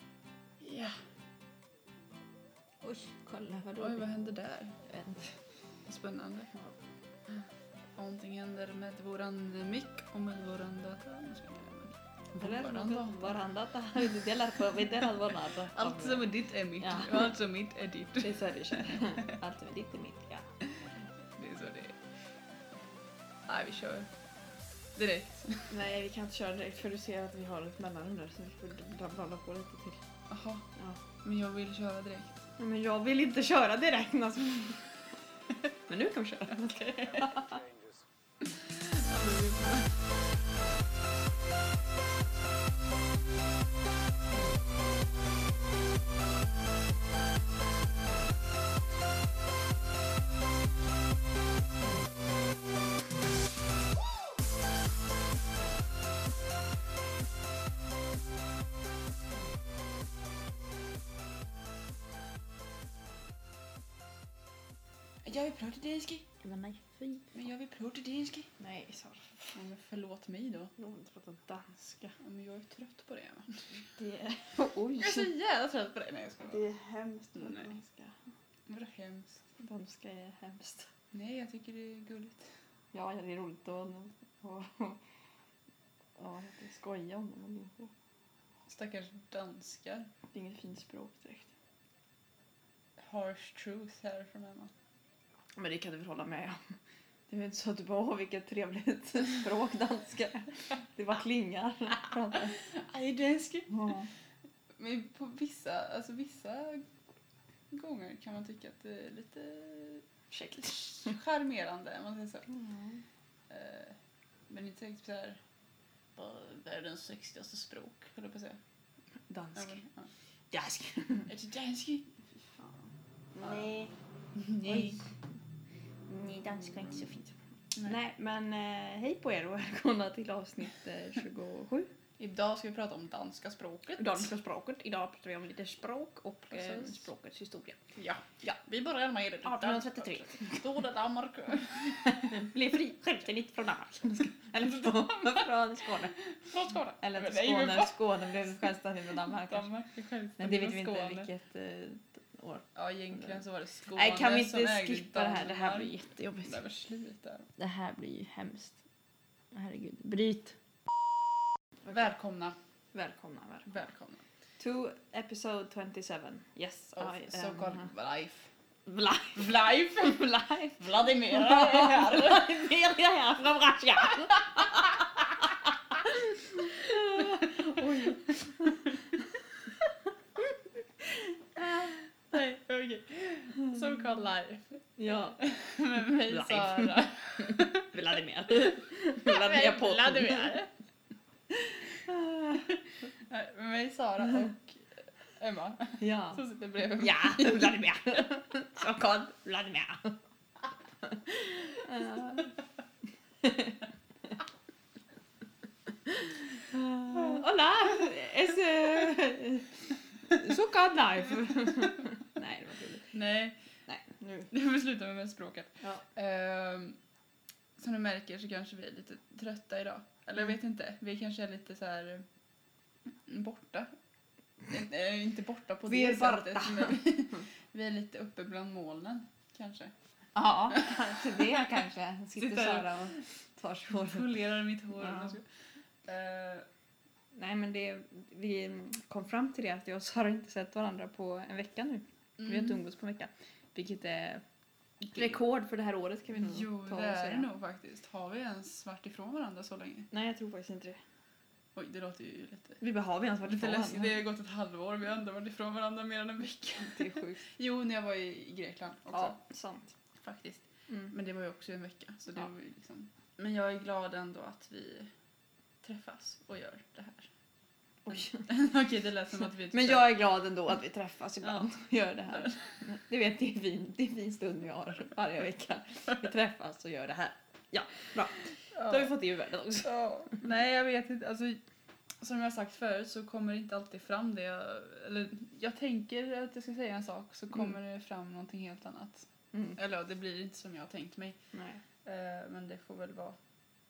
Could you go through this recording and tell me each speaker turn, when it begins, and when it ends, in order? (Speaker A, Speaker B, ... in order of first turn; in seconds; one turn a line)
Speaker A: 0.6-0.9
Speaker B: 2.8-4.0
Speaker A: 3.8-4.8
Speaker B: 4.8-5.4
Speaker A: 5.8-6.5
Speaker A: 8.0-13.4
Speaker B: 12.4-17.4
Speaker A: 15.6-19.4
Speaker B: 18.2-20.5
Speaker A: 20.8-22.0
Speaker A: 23.5-24.1
Speaker A: 24.9-25.7
Speaker B: 25.7-30.0
Speaker A: 30.3-32.4
Speaker B: 30.7-31.0
Speaker B: 32.6-35.0
Speaker B: 35.9-37.6
Speaker A: 36.5-37.5
Speaker A: 38.4-39.9
Speaker A: 65.2-66.2
Speaker B: 66.4-67.2
Speaker A: 67.3-68.5
Speaker B: 68.6-69.6
Speaker A: 69.5-70.7
Speaker B: 70.8-72.2
Speaker A: 72.2-73.7
Speaker B: 73.9-75.3
Speaker A: 74.9-76.6
Speaker B: 76.5-78.2
Speaker A: 77.3-77.8
Speaker A: 78.7-79.4
Speaker B: 79.6-80.9
Speaker A: 81.1-82.5
Speaker B: 82.9-85.0
Speaker B: 86.2-87.9
Speaker A: 88.7-90.1
Speaker B: 90.3-91.5
Speaker A: 93.0-94.7
Speaker B: 95.5-96.8
Speaker B: 97.3-102.6
Speaker A: 102.3-104.0
Speaker B: 103.7-104.1
Speaker A: 104.8-106.9
Speaker A: 107.7-112.5
Speaker B: 110.3-111.1
Speaker B: 112.5-113.0
Speaker A: 113.5-114.0
Speaker A: 114.5-115.4
Speaker A: 116.2-118.6
Speaker B: 119.3-119.8
Speaker A: 119.5-120.1
Speaker B: 120.5-121.3
Speaker A: 121.2-122.2
Speaker B: 123.3-123.9
Speaker A: 124.3-125.0
Speaker B: 124.6-125.0
Speaker B: 126.1-131.9
Speaker A: 132.2-134.3
Speaker B: 134.0-137.8
Speaker A: 136.5-137.0
Speaker A: 137.9-142.3
Speaker B: 139.4-140.6
Speaker B: 142.0-146.2
Speaker A: 146.2-148.3
Speaker B: 147.0-149.7
Speaker A: 149.5-151.3
Speaker B: 150.4-153.4
Speaker A: 152.7-157.5
Speaker B: 153.9-156.6
Speaker B: 157.6-158.8
Speaker B: 159.5-160.6
Speaker A: 161.9-162.6
Speaker B: 162.9-163.7
Speaker A: 163.7-164.2
Speaker B: 164.6-167.9
Speaker A: 166.9-168.5
Speaker B: 168.8-178.9
Speaker A: 169.3-172.9
Speaker A: 174.3-175.1
Speaker A: 176.7-179.1
Speaker B: 181.6-182.0
Speaker A: 181.8-184.8
Speaker B: 185.0-185.4
Speaker A: 185.4-187.9
Speaker B: 186.0-190.6
Speaker A: 189.2-190.7
Speaker B: 191.5-192.7
Speaker A: 193.1-194.8
Speaker A: 195.4-198.3
Speaker B: 196.0-196.4
Speaker B: 196.9-200.2
Speaker B: 201.0-202.5
Speaker B: 203.4-203.8
Speaker B: 206.1-213.1
Speaker A: 213.1-213.6
Speaker B: 213.9-214.5
Speaker A: 214.5-217.0
Speaker A: 217.8-222.2
Speaker A: 223.2-223.9
Speaker A: 224.7-229.9
Speaker B: 225.9-227.1
Speaker B: 230.3-234.4
Speaker A: 230.7-231.6
Speaker A: 232.4-233.2
Speaker A: 233.9-235.4
Speaker B: 234.9-235.3
Speaker A: 236.0-236.7
Speaker B: 237.3-244.4
Speaker A: 242.4-242.8
Speaker B: 245.1-247.5
Speaker A: 246.4-250.1
Speaker B: 250.1-251.0
Speaker A: 251.8-252.8
Speaker B: 252.8-254.2
Speaker A: 253.5-259.4
Speaker B: 256.8-257.4
Speaker B: 259.1-259.9
Speaker A: 260.2-265.1
Speaker A: 265.8-267.3
Speaker B: 268.0-268.5
Speaker A: 268.1-270.1
Speaker B: 269.7-279.9
Speaker A: 271.4-271.7
Speaker A: 272.3-272.8
Speaker A: 278.7-279.1
Speaker A: 279.8-281.6
Speaker A: 282.2-291.4
Speaker B: 291.5-291.8
Speaker A: 292.0-293.4